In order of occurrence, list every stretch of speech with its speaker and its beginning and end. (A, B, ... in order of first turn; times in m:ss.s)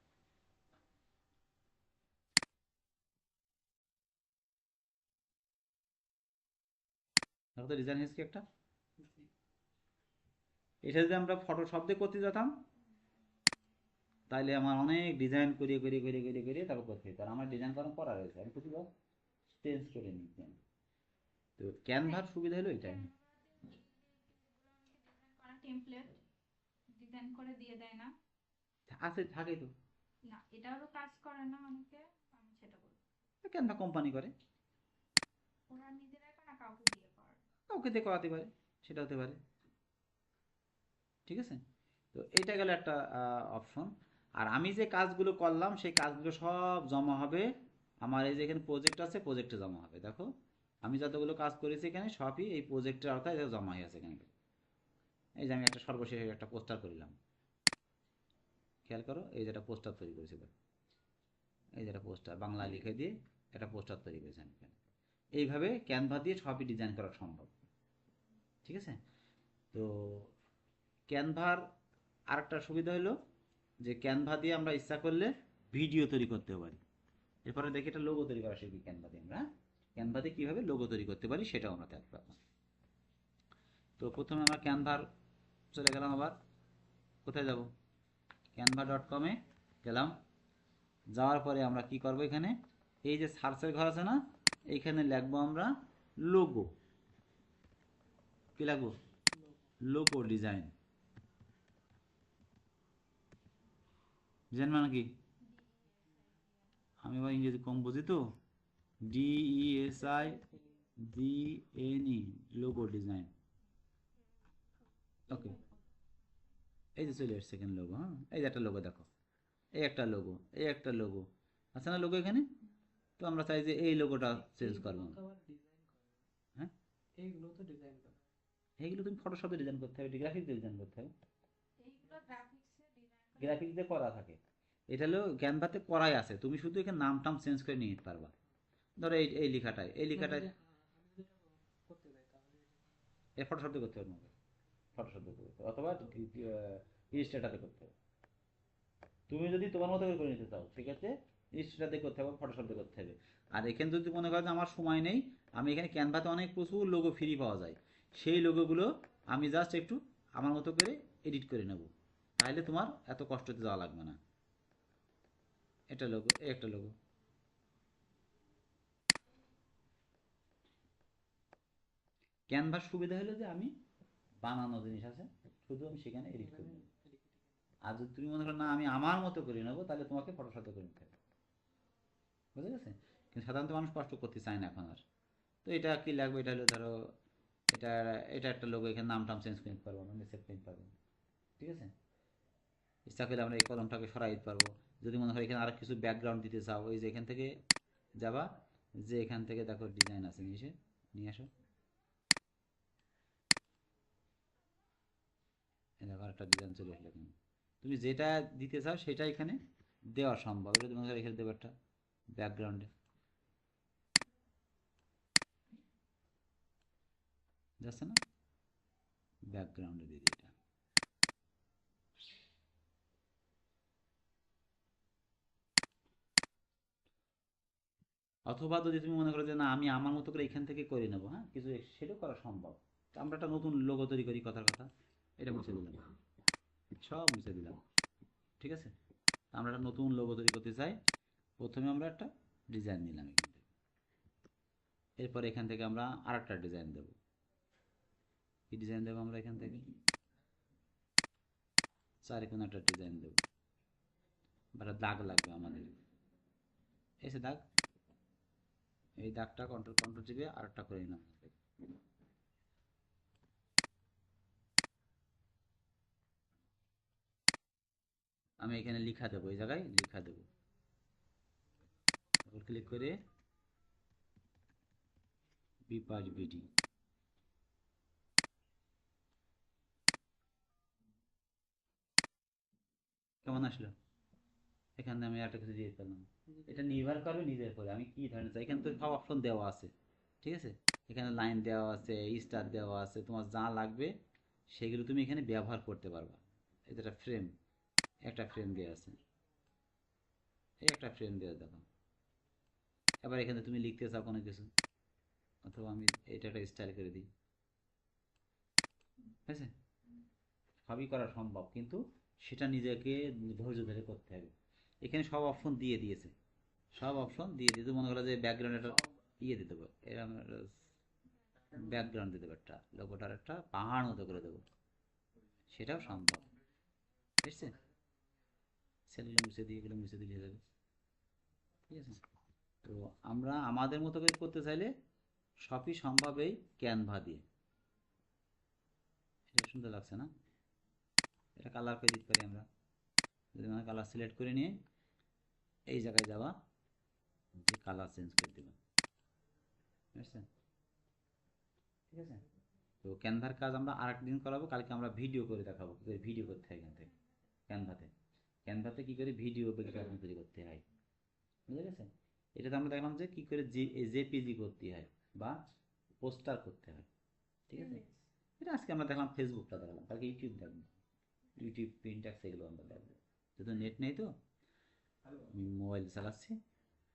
0:07.6-0:08.4 A
0:10.8-0:12.6 A
0:14.3-0:18.9 A
0:19.5-0:20.6 A
0:21.6-0:23.1 A
0:22.8-0:26.2 B
0:26.9-0:28.2 B
0:28.9-0:29.7 A
0:30.2-0:33.0 B
0:33.4-0:34.3 A
0:35.7-0:37.4 B
0:37.7-0:39.4 A
0:41.3-0:47.5 A
0:48.0-0:50.3 A
0:50.8-0:54.3 A
0:55.4-0:57.2 A
0:58.9-1:00.5 A
1:01.8-1:04.8 A
1:05.4-1:07.5 A
1:08.6-1:09.0 A
1:09.7-1:10.3 A
1:11.1-1:11.7 A
1:12.3-1:13.2 A
1:13.8-1:16.8 A
1:17.4-1:22.4 A
1:24.0-1:25.1 A
1:25.7-1:26.4 A
1:27.2-1:27.7 A
1:28.6-1:30.2 A
1:31.1-1:36.7 A
1:38.6-1:38.9 A
1:39.8-1:40.7 A
1:44.5-1:45.1 A
1:45.4-1:46.7 B
1:47.0-1:48.3 A
1:49.0-1:50.4 A
1:51.0-1:53.3 A
1:55.3-1:55.6 A
1:57.0-1:59.1 A
1:59.8-2:02.5 A
2:03.2-2:05.2 A
2:04.6-2:06.2 C
2:07.2-2:08.2 C
2:08.8-2:11.1 A
2:11.8-2:13.6 B
2:13.4-2:14.4 A
2:14.9-2:18.3 A
2:19.0-2:20.5 A
2:20.6-2:22.8 C
2:23.4-2:24.3 A
2:25.0-2:27.9 A
2:29.3-2:44.2 A
2:45.9-2:47.0 A
2:52.5-2:53.7 A
2:54.4-2:56.9 A
2:56.9-2:57.4 C
2:57.8-3:01.2 A
3:02.6-3:05.0 A
3:05.6-3:07.1 A
3:07.7-3:10.9 A
3:11.6-3:11.9 A
3:13.1-3:17.6 A
3:18.2-3:21.5 A
3:26.0-3:29.6 A
3:30.1-3:31.7 A
3:32.3-3:32.9 A
3:37.8-3:38.2 A
3:39.5-3:40.6 A
3:48.5-3:56.1 A
3:57.0-3:57.8 A
3:58.6-3:58.9 A
3:59.5-4:01.0 A
4:01.6-4:03.7 A
4:05.2-4:07.2 A
4:08.7-4:09.9 A
4:12.2-4:13.4 A
4:14.8-4:16.0 A
4:17.2-4:17.6 A
4:19.2-4:21.6 A
4:28.6-4:30.5 A
4:32.4-4:33.2 A
4:35.9-4:36.7 A
4:43.4-4:44.0 A
4:45.0-4:49.9 A
4:50.4-4:54.1 A
4:54.7-4:57.5 A
4:58.3-4:59.2 A
5:00.8-5:01.9 A
5:03.2-5:04.7 A
5:05.6-5:07.3 A
5:09.5-5:09.7 A
5:10.9-5:16.3 A
5:17.0-5:20.8 A
5:21.7-5:24.6 A
5:25.7-5:26.5 A
5:27.4-5:27.8 A
5:29.1-5:30.6 A
5:31.9-5:32.2 A
5:32.8-5:34.9 A
5:35.6-5:37.4 A
5:39.5-5:40.3 A
5:41.6-5:42.7 A
5:43.6-5:44.8 A
5:45.9-5:46.6 A
5:47.6-5:48.8 A
5:50.1-5:50.5 A
5:52.1-5:52.4 A
5:53.0-5:57.1 A
5:57.7-5:58.1 A
5:58.7-6:00.8 A
6:01.7-6:05.6 A
6:06.2-6:07.1 A
6:07.7-6:08.0 A
6:08.6-6:11.0 A
6:11.6-6:14.3 A
6:15.5-6:16.6 A